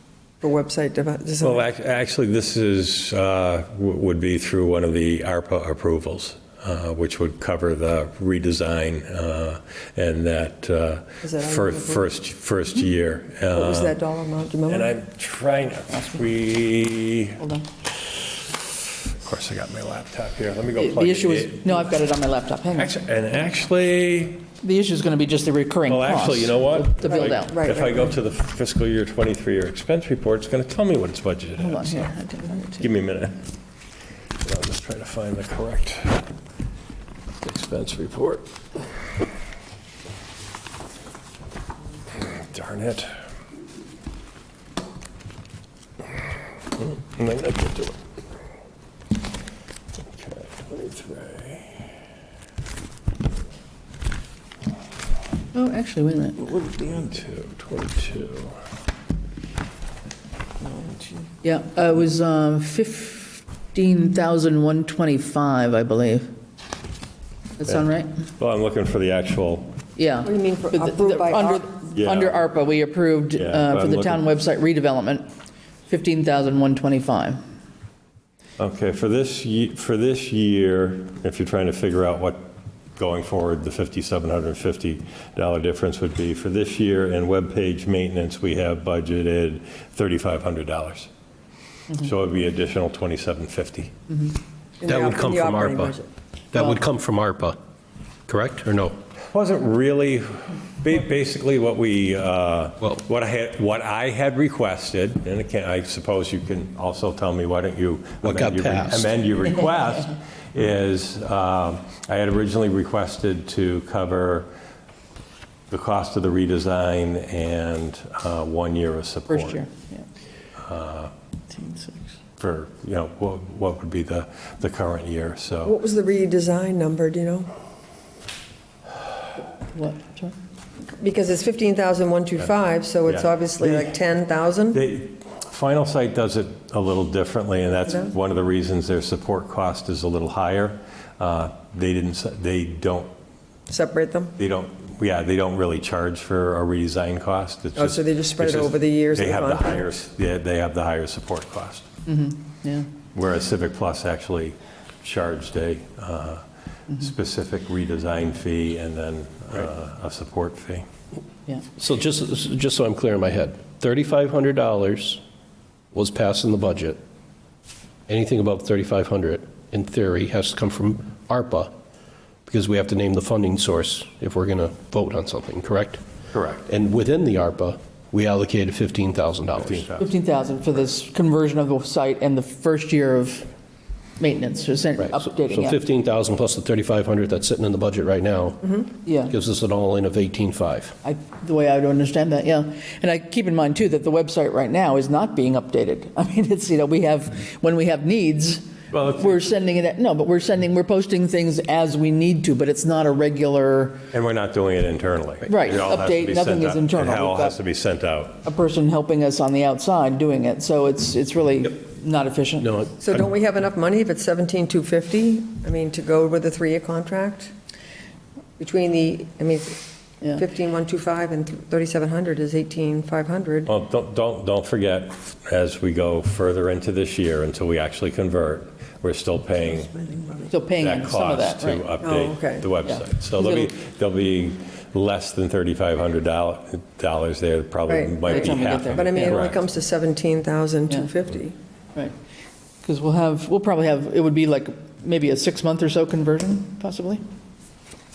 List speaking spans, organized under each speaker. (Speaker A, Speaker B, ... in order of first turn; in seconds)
Speaker A: 0.4-1.6, 11.2-12.1, 13.5-14.9, 27.2-28.1, 60.7-61.0, 70.2-71.7, 94.8-96.1, 125.6-127.5, 131.0-134.8, 143.7-144.3, 147.8-149.9, 213.0-217.5, 218.6-223.7, 232.0-232.7, 237.9-241.6
Speaker B: 1.4-14.0, 14.7-17.4, 19.2-21.9, 22.7-24.5, 25.9-32.1, 32.7-33.4, 34.4-36.2, 37.4-38.5, 42.1-43.2, 46.8-48.0, 50.0-51.9, 56.8-58.6, 67.7-69.8, 71.9-72.5, 73.3-74.2, 78.6-91.1, 91.9-94.0, 99.3-114.5, 115.7-119.6, 120.6-121.1, 122.4-125.8, 133.1-134.0, 134.7-143.1, 144.4-151.9, 153.1-160.9, 176.3-176.7, 179.6-180.1, 198.9-199.4, 204.1-208.4, 223.7-239.6
Speaker C: 17.4-17.7, 20.8-23.0, 24.6-27.6, 31.6-32.9, 55.5-56.6, 61.4-66.3, 67.6-68.1, 70.0-75.3, 75.9-77.4, 119.3-120.0, 121.5-122.0, 129.6-130.3, 152.1-152.9, 180.0-183.5, 184.2-185.8, 189.1-189.3, 191.0-198.6, 199.2-204.0, 205.5-207.6, 208.4-212.7, 230.5-231.9, 232.9-233.7, 238.3-239.4, 242.8-247.2
Speaker D: 94.9-96.0, 96.5-97.6, 98.3-99.0, 108.2-109.1, 161.8-165.2, 165.9-167.0, 168.1-171.7, 172.5-176.0, 176.7-179.9, 185.0-190.9, 212.6-213.1